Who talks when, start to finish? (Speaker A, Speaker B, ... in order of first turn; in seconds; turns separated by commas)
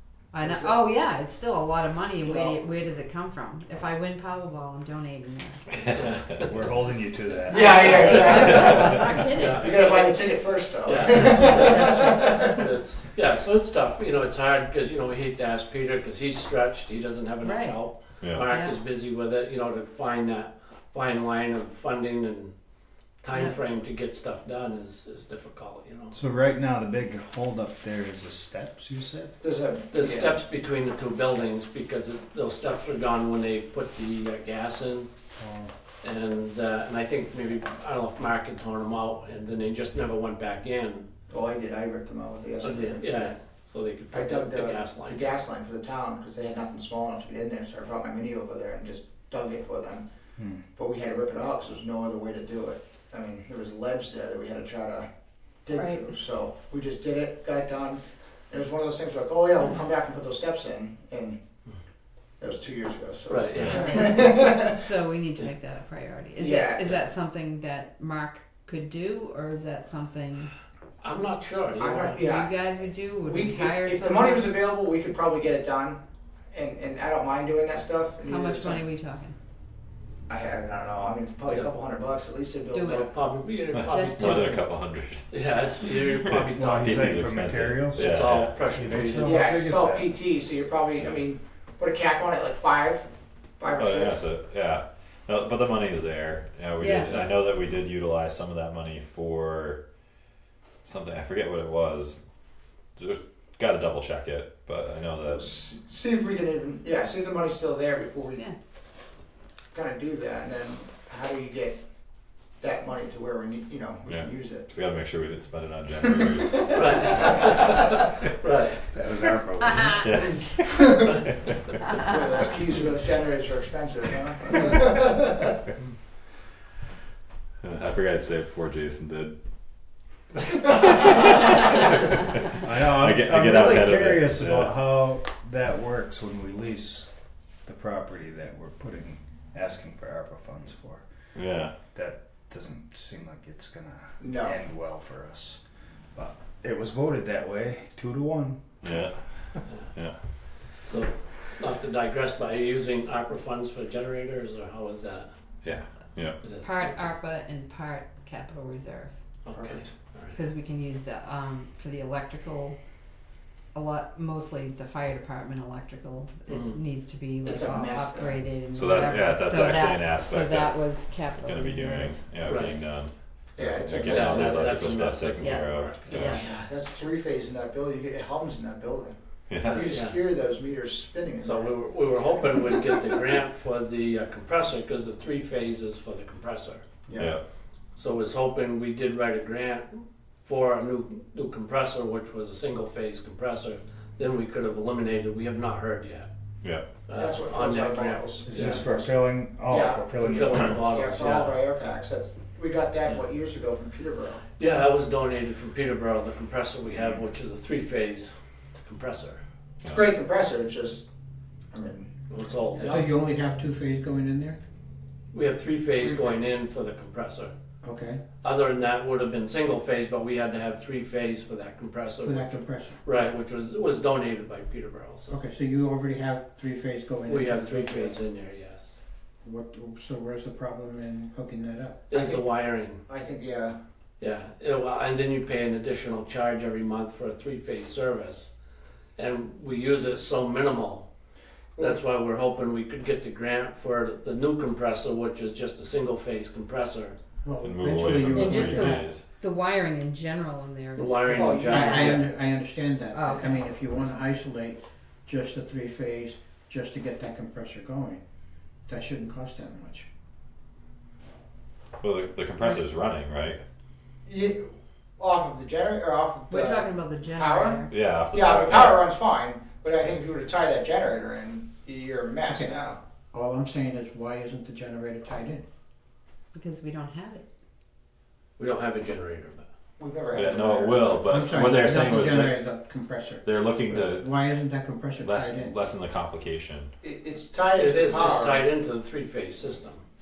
Speaker A: 0.3-5.8, Speaker B: 0.4-0.8, Speaker B: 2.2-2.7, Speaker C: 5.9-6.5, Speaker D: 6.4-9.0, Speaker B: 7.5-12.6, Speaker A: 7.5-9.6, Speaker C: 9.2-22.5, Speaker A: 11.2-12.1, Speaker A: 17.4-17.8, Speaker E: 18.2-18.5, Speaker A: 18.4-18.8, Speaker C: 23.2-26.2, Speaker D: 26.1-29.3, Speaker B: 29.4-30.4, Speaker C: 29.9-35.1, Speaker D: 35.4-35.7, Speaker C: 36.0-41.1, Speaker B: 41.3-43.3, Speaker C: 42.6-45.3, Speaker B: 44.1-50.0, Speaker D: 50.4-50.6, Speaker B: 50.7-55.1, Speaker B: 55.6-61.4, Speaker A: 55.7-56.0, Speaker B: 62.4-64.8, Speaker C: 63.3-64.0, Speaker A: 63.6-70.5, Speaker B: 66.4-67.0, Speaker C: 71.0-72.2, Speaker B: 71.8-72.5, Speaker A: 72.2-74.5, Speaker B: 73.2-76.0, Speaker B: 76.5-78.8, Speaker A: 78.2-79.3, Speaker B: 80.3-83.1, Speaker A: 82.7-83.1, Speaker C: 83.1-84.6, Speaker E: 83.7-85.2, Speaker A: 83.8-84.6, Speaker C: 85.3-89.4, Speaker D: 86.2-90.1, Speaker E: 86.3-89.1, Speaker B: 89.2-93.0, Speaker B: 93.6-94.3, Speaker E: 93.8-99.8, Speaker A: 96.8-97.1, Speaker E: 100.8-102.2, Speaker E: 103.0-105.5, Speaker B: 105.2-108.4, Speaker B: 109.7-111.8, Speaker B: 112.6-114.7, Speaker E: 114.0-117.0, Speaker B: 116.0-117.4, Speaker C: 116.7-118.8, Speaker D: 118.9-120.4, Speaker E: 120.0-121.6, Speaker B: 122.0-125.5, Speaker E: 127.6-129.3, Speaker E: 130.5-134.8, Speaker D: 132.6-137.1, Speaker D: 137.6-141.1, Speaker E: 141.3-141.7, Speaker D: 141.9-145.6, Speaker B: 144.2-144.6, Speaker D: 146.1-148.8, Speaker E: 148.8-149.2, Speaker C: 150.8-155.3, Speaker E: 155.6-156.4, Speaker C: 156.4-157.0, Speaker A: 156.6-159.1, Speaker C: 159.4-160.4, Speaker B: 159.5-159.8, Speaker A: 160.3-162.8, Speaker A: 163.7-172.1, Speaker C: 166.5-166.8, Speaker B: 167.4-168.4, Speaker E: 168.7-176.4, Speaker C: 172.4-172.8, Speaker B: 173.6-174.9, Speaker C: 174.0-176.6, Speaker A: 175.4-176.4, Speaker B: 176.1-179.2, Speaker E: 179.5-179.8, Speaker C: 179.7-180.2, Speaker B: 179.7-182.8, Speaker C: 181.4-186.8, Speaker B: 187.1-187.4, Speaker E: 187.2-187.4, Speaker C: 187.9-196.3, Speaker E: 196.6-196.9, Speaker C: 197.0-198.8, Speaker B: 197.1-199.1, Speaker D: 198.4-201.0, Speaker B: 199.7-204.4, Speaker C: 200.2-201.6, Speaker C: 204.6-209.4, Speaker B: 209.8-211.0, Speaker B: 211.7-212.1, Speaker C: 212.3-213.1, Speaker F: 212.8-214.6, Speaker C: 215.3-217.5, Speaker F: 216.0-216.4, Speaker F: 217.8-218.2, Speaker C: 218.4-225.3, Speaker F: 222.2-223.0, Speaker F: 225.3-228.2, Speaker C: 227.3-228.9, Speaker F: 229.4-232.0, Speaker C: 232.1-233.0, Speaker B: 232.1-232.4, Speaker B: 233.0-233.8, Speaker C: 234.2-238.5, Speaker C: 239.2-241.1, Speaker C: 241.8-247.2, Speaker F: 247.4-249.1, Speaker E: 247.6-249.2, Speaker A: 248.3-252.2, Speaker C: 250.9-252.3, Speaker B: 251.3-252.3, Speaker F: 251.7-258.2, Speaker A: 253.1-253.6, Speaker F: 258.9-260.1, Speaker E: 262.0-263.6, Speaker B: 264.2-273.0, Speaker A: 266.5-268.0, Speaker E: 267.9-269.0, Speaker F: 272.5-272.7, Speaker F: 273.3-275.6, Speaker A: 276.5-277.4, Speaker C: 278.6-279.7, Speaker B: 280.0-281.6, Speaker E: 280.3-282.6, Speaker F: 281.3-283.5, Speaker E: 283.4-284.3, Speaker F: 284.1-285.7, Speaker E: 285.2-286.9, Speaker B: 287.0-288.6, Speaker C: 287.7-290.0